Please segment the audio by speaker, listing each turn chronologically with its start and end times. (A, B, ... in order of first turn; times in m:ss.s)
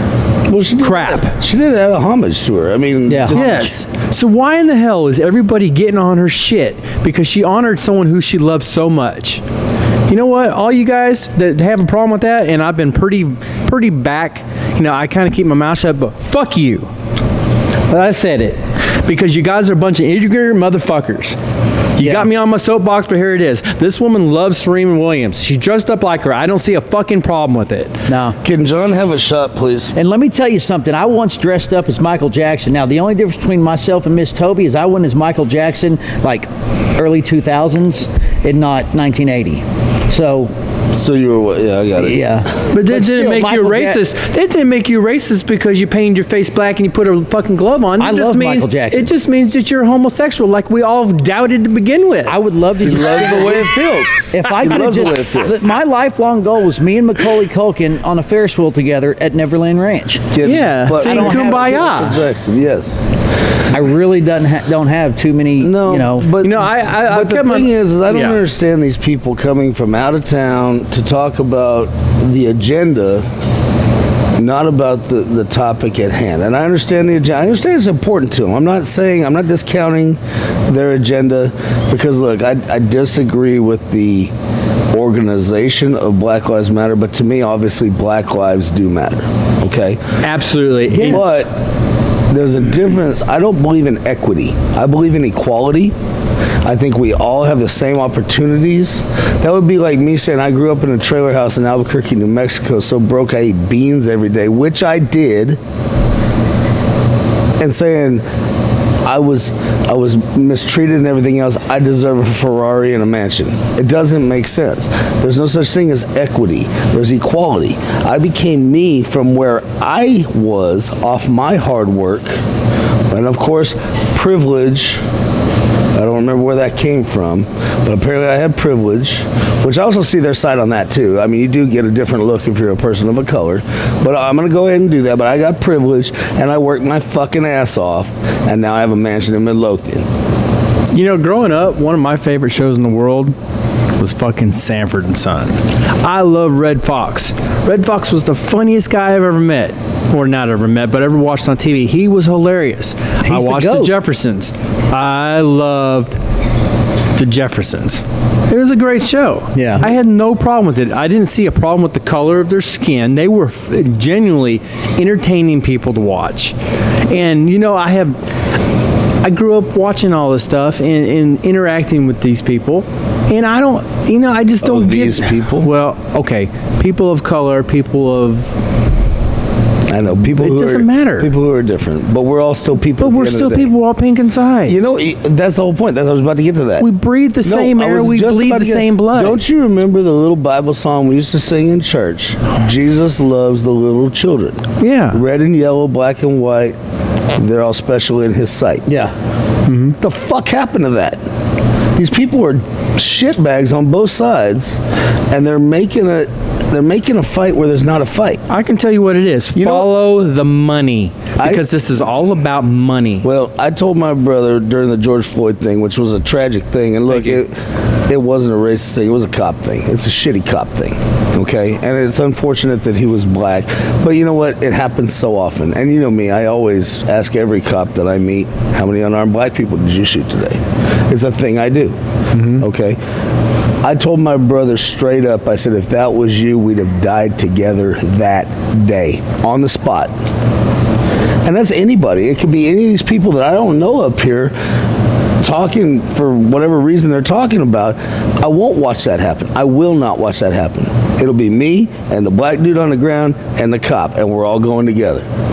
0:00.5-0:03.8 A
0:00.8-0:01.3 B
0:03.1-0:03.4 C
0:03.3-0:09.4 B
0:10.1-0:16.9 B
0:17.9-0:21.4 B
0:22.0-0:28.0 B
0:22.0-0:22.3 C
0:28.1-0:28.4 C
0:28.4-0:29.9 A
0:30.0-0:40.5 C
0:40.9-0:42.3 A
0:42.0-0:44.0 C
0:42.7-0:52.4 B
0:48.0-0:49.1 C
0:52.3-0:53.8 C
0:52.8-0:55.6 A
0:54.3-1:00.3 C
1:00.3-1:03.0 A
1:00.4-1:02.2 B
1:00.9-1:01.8 C
1:03.7-1:06.3 C
1:05.6-1:13.2 A
1:06.4-1:08.4 B
1:14.4-1:24.3 A
1:24.9-1:30.0 A
1:30.2-1:31.4 B
1:31.0-1:31.5 A
1:32.3-1:35.9 A
1:36.6-1:45.6 A
1:47.6-1:48.2 A
1:49.0-2:02.4 A
2:03.1-2:05.0 A
2:06.0-2:20.1 A
2:20.9-2:23.4 B
2:24.0-2:36.2 B
2:33.2-2:33.9 C
2:37.2-2:46.6 B
2:39.6-2:39.9 C
2:47.1-2:48.2 B
2:49.2-2:58.6 B
2:54.6-2:55.7 A
2:59.9-3:03.7 A
3:00.3-3:01.3 B
3:03.0-3:04.8 B
3:04.7-3:06.9 A
3:06.8-3:09.4 B
3:07.4-3:16.8 A
3:14.8-3:15.2 B
3:17.4-3:18.9 A
3:19.7-3:20.0 B
3:20.0-3:21.2 A
3:22.0-3:24.8 A
3:25.3-3:28.4 A
3:28.5-3:33.3 B
3:29.6-3:29.9 A
3:31.4-3:31.7 A
3:33.2-3:37.5 A
3:37.1-3:37.4 B
3:38.1-3:52.0 A
3:52.4-3:52.6 B
3:52.6-3:53.0 A
3:53.8-4:00.1 A
4:01.4-4:04.6 A
4:05.4-4:15.2 A